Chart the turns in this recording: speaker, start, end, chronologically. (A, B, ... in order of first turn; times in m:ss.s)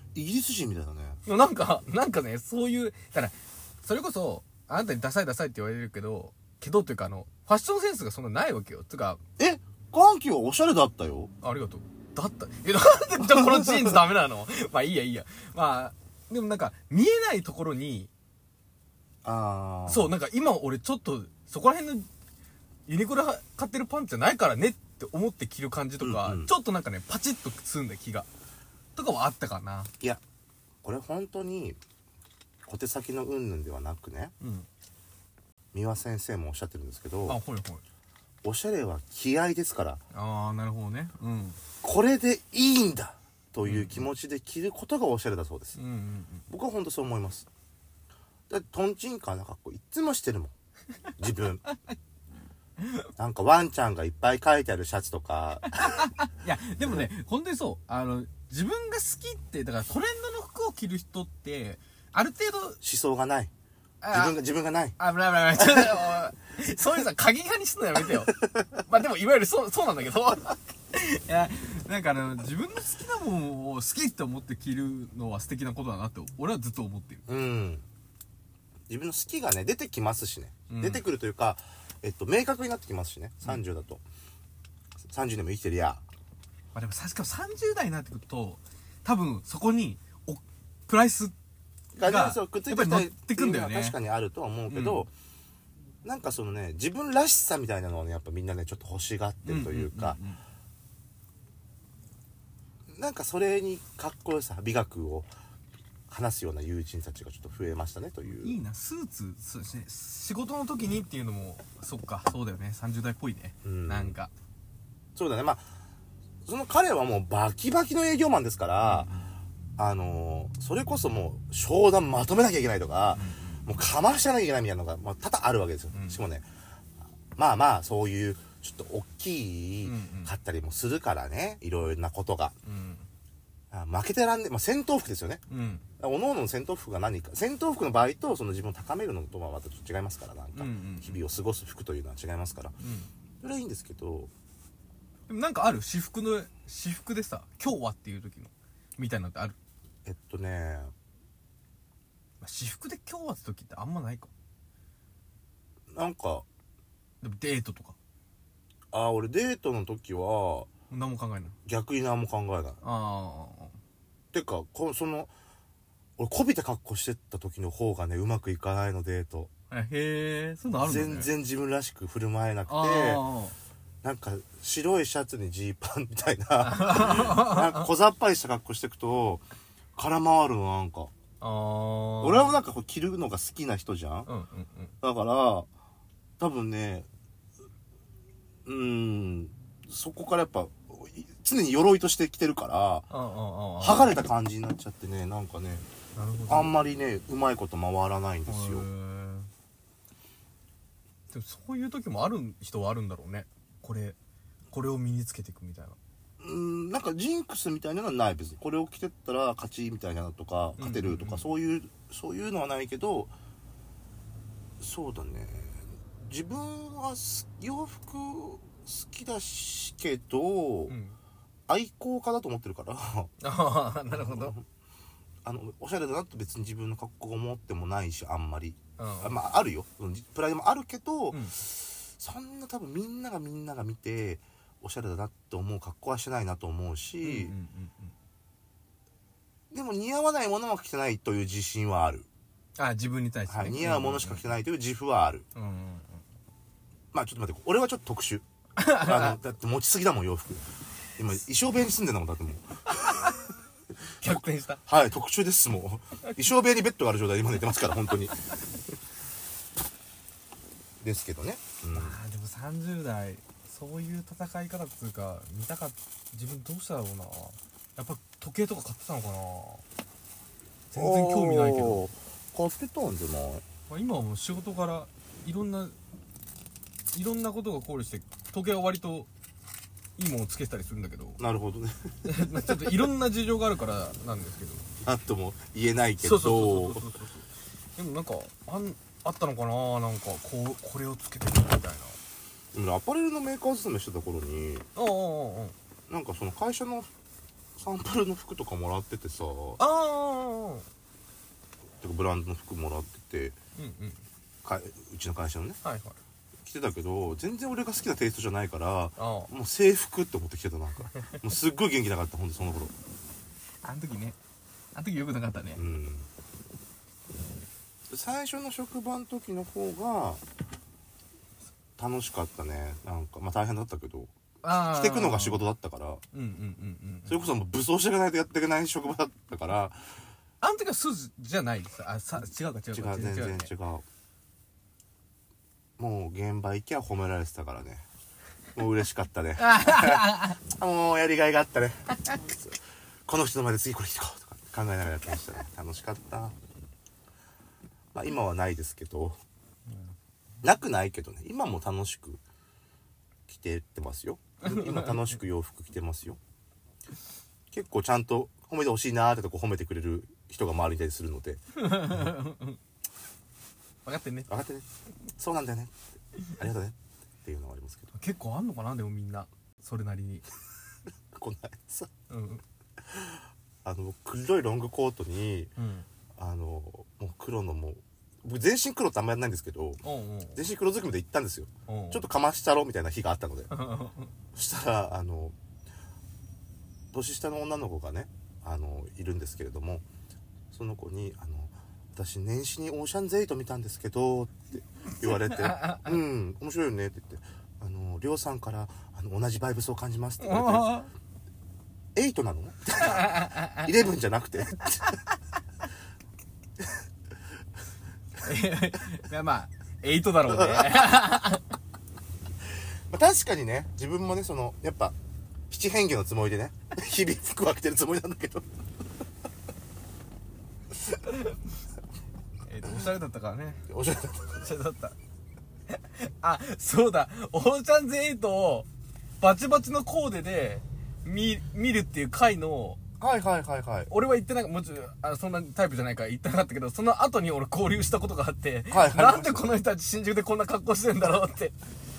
0:00.1-0:01.2 A
0:01.2-0:09.2 B
0:09.4-0:11.3 A
0:11.4-0:18.1 B
0:13.6-0:13.9 A
0:19.2-0:20.1 A
0:19.9-0:22.1 B
0:22.9-0:28.3 B
0:26.0-0:26.5 A
0:28.9-0:29.9 B
0:30.8-0:31.8 A
0:32.6-0:34.3 A
0:34.4-0:34.7 B
0:35.7-0:37.4 A
0:37.2-0:37.8 B
0:38.4-0:40.0 A
0:40.1-0:41.6 B
0:41.8-0:45.8 A
0:43.6-0:44.1 B
0:45.8-0:46.4 B
0:46.5-0:47.5 A
0:48.5-0:50.5 A
0:51.2-0:51.6 A
0:52.8-0:53.1 B
0:53.2-0:56.1 A
0:55.6-1:02.8 B
0:56.8-0:57.1 A
1:02.8-1:03.5 A
1:04.0-1:04.4 B
1:04.1-1:05.0 A
1:05.0-1:17.2 B
1:17.3-1:17.8 A
1:18.9-1:24.0 A
1:20.7-1:21.0 B
1:25.1-1:26.0 A
1:26.7-1:31.3 B
1:32.0-1:35.1 A
1:32.0-1:34.0 B
1:34.7-1:35.1 B
1:36.0-1:40.2 A
1:39.4-1:40.4 B
1:42.9-1:45.3 A
1:46.1-1:48.6 A
1:48.3-1:54.3 B
1:53.6-1:54.1 A
1:55.2-1:55.7 A
1:56.4-1:59.1 A
1:58.8-1:59.3 B
1:59.8-2:06.4 A
2:03.1-2:03.7 B
2:05.9-2:06.2 B
2:07.4-2:12.5 A
2:09.8-2:10.3 B
2:12.6-2:13.1 B
2:13.7-2:15.4 A
2:15.5-2:15.8 B
2:16.0-2:22.7 A
2:20.5-2:21.2 B
2:22.8-2:23.1 B
2:23.4-2:24.3 A
2:25.3-2:29.6 B
2:30.0-2:30.9 A
2:32.4-2:34.3 B
2:35.9-2:36.4 A
2:37.2-2:38.0 B
2:38.9-2:40.7 A
2:40.9-2:41.6 B
2:41.6-2:42.8 A
2:42.8-2:43.8 B
2:44.3-2:45.3 A
2:46.2-2:49.5 A
2:49.7-2:51.3 B
2:50.8-2:53.2 A
2:52.7-2:53.6 B
2:54.0-2:59.4 A
2:56.6-2:57.9 B
3:00.0-3:01.1 A
3:01.4-3:02.6 B
3:02.2-3:04.3 A
3:04.3-3:04.9 B
3:05.0-3:05.7 A
3:06.4-3:07.1 A
3:08.6-3:13.1 A
3:13.1-3:14.1 B
3:13.8-3:15.8 A
3:16.1-3:16.8 B
3:16.5-3:18.8 A
3:18.5-3:19.5 B
3:21.3-3:24.2 B
3:24.7-3:26.0 B
3:26.4-3:33.3 A
3:30.8-3:31.5 B
3:34.8-3:41.0 A
3:40.9-3:41.2 B
3:41.7-3:43.3 A
3:43.4-3:44.5 B
3:44.1-3:44.6 A
3:45.4-3:57.5 A
3:49.0-3:49.4 B
3:51.3-3:51.6 B
3:57.2-3:58.1 B
3:59.7-4:02.3 A
4:02.8-4:04.5 B
4:03.5-4:05.4 A
4:05.5-4:06.2 B
4:07.1-4:08.4 A
4:08.8-4:09.4 B
4:09.0-4:10.6 A
4:11.2-4:13.3 A
4:14.2-4:14.8 B
4:14.8-4:18.5 A
4:21.0-4:22.2 A
4:21.9-4:29.8 B
4:30.9-4:32.0 B
4:30.9-4:33.6 A
4:33.9-4:36.0 B
4:37.1-4:39.3 B
4:40.2-4:41.4 B
4:41.4-4:43.0 A
4:42.2-4:44.9 B
4:45.0-4:47.0 A
4:46.2-4:52.2 B
4:52.7-4:54.8 A
4:54.9-4:55.7 B
4:56.1-4:57.1 A
4:57.8-4:59.8 A
4:59.8-5:00.8 B
5:02.0-5:03.6 A
5:03.8-5:04.2 B
5:04.6-5:05.8 A
5:05.8-5:06.2 B
5:06.6-5:12.9 A
5:09.2-5:09.5 B
5:13.8-5:14.4 B
5:14.9-5:15.8 B
5:15.8-5:16.3 A
5:18.1-5:20.4 A
5:22.0-5:26.2 A
5:24.6-5:25.7 B
5:26.3-5:27.4 B
5:27.3-5:30.0 A
5:30.6-5:33.7 B
5:32.9-5:34.0 A
5:36.0-5:38.0 A
5:38.7-5:46.6 A
5:39.6-5:40.6 B
5:48.1-5:49.4 A
5:49.9-5:50.1 B
5:50.6-5:52.4 A
5:53.5-5:56.4 A
5:54.6-5:55.3 B
5:57.7-6:01.6 A
6:01.7-6:02.8 B
6:04.0-6:04.5 B
6:04.5-6:04.8 A
6:05.4-6:08.1 A
6:08.1-6:10.4 B
6:11.3-6:12.1 A
6:12.3-6:12.6 B
6:13.1-6:15.7 A
6:15.8-6:16.1 B
6:16.4-6:20.0 A
6:20.0-6:20.6 B
6:20.5-6:23.7 A
6:21.9-6:22.2 B
6:23.7-6:24.3 B
6:24.5-6:25.5 A
6:27.1-6:30.0 A
6:30.7-6:41.0 A
6:35.2-6:36.2 B
6:40.4-6:41.1 B
6:42.2-6:45.2 A
6:43.0-6:43.9 B
6:48.4-6:51.7 B
6:50.5-6:51.1 A
6:53.1-6:55.2 A
6:55.7-6:58.6 A
7:02.6-7:03.8 B
7:03.9-7:04.6 A
7:04.5-7:05.2 B
7:05.9-7:08.9 B
7:09.4-7:13.0 B
7:13.2-7:14.1 A
7:14.1-7:21.8 B
7:18.9-7:19.7 A